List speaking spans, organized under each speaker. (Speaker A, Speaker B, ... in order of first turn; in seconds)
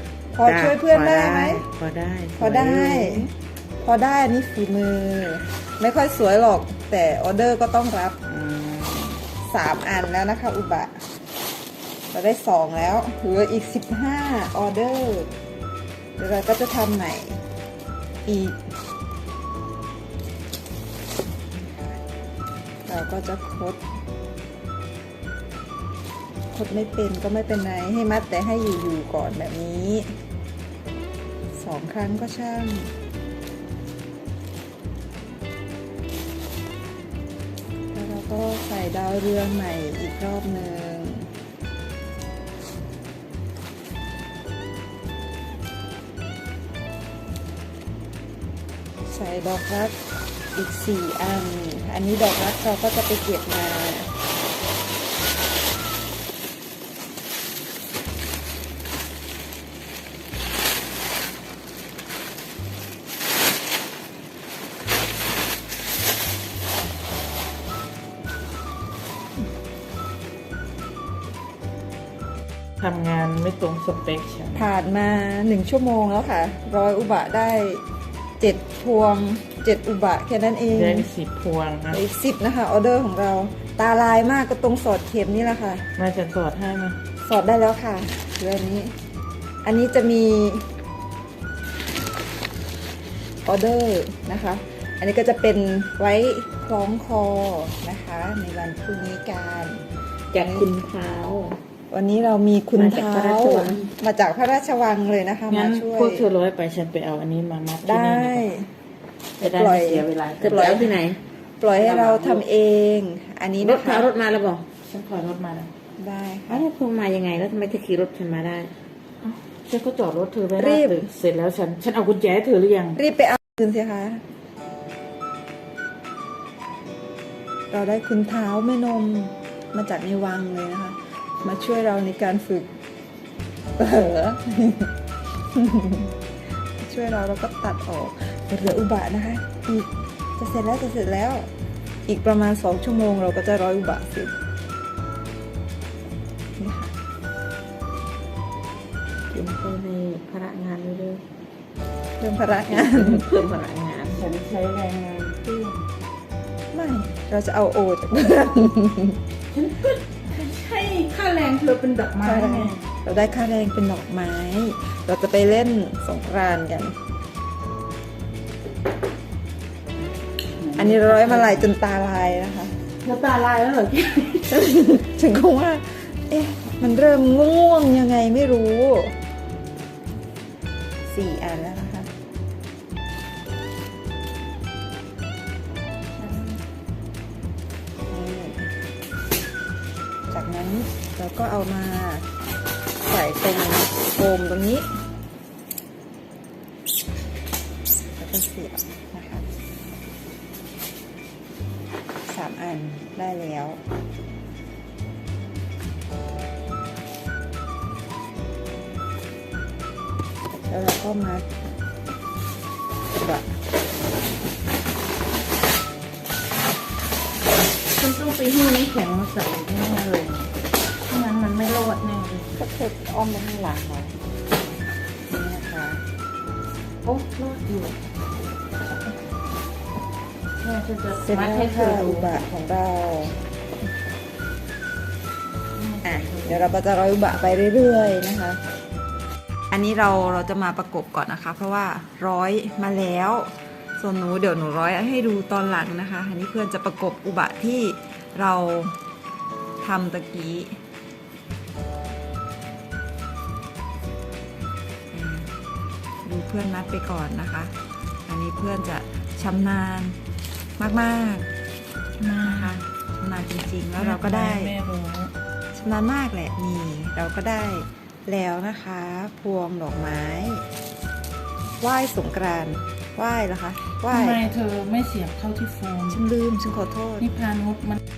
Speaker A: 0.3-1.6, 2.4-8.2, 9.4-11.0, 12.1-15.3, 16.2-17.4, 18.2-18.7, 21.5-22.0, 22.8-23.8, 26.5-30.2, 31.5-32.9, 37.9-41.3, 49.1-50.0, 50.5-54.1, 74.5-77.8, 78.4-81.1, 81.9-85.8, 87.2-88.9, 89.6-90.7, 93.4-100.7, 101.9-106.3, 107.8-108.7, 109.4-110.9, 111.6-114.1, 116.0-116.7, 120.5-121.0, 123.0-124.2, 127.7-132.7, 133.8-134.9, 135.5-136.1, 136.8-141.5, 142.1-144.3, 146.6-146.9, 152.2-153.2, 156.7-159.2, 162.2-166.9, 170.7-172.8, 174.5-179.2, 181.1-182.1, 188.1-188.7, 190.3-192.3, 193.0-194.9, 198.2-199.4, 202.2-203.8, 210.7-211.5, 213.2-213.5, 225.3-226.0, 231.1-233.4, 236.0-238.6, 239.7-249.0, 249.8-250.8, 255.1-255.5, 256.2-257.7, 258.3-260.2, 260.8-261.5, 262.3-264.7, 265.7-270.6, 271.8-274.4, 276.1-277.2
Speaker B: 0.4-3.3, 8.2-9.2, 72.8-74.7, 80.7-82.0, 86.0-87.0, 105.5-108.4, 109.4-111.0, 111.7-112.4, 114.8-115.7, 119.2-123.0, 154.1-155.8, 159.5-162.8, 170.6-171.7, 173.0-174.5, 217.9-220.5, 221.1-222.6, 227.0-228.0, 230.6-232.3, 235.8-236.7, 262.2-262.8, 264.0-265.3, 274.1-276.2, 277.2-278.0
Speaker C: 100.3-101.6, 102.7-103.9, 110.4-111.2, 113.6-114.6, 116.5-118.7, 149.3-151.2, 152.7-154.3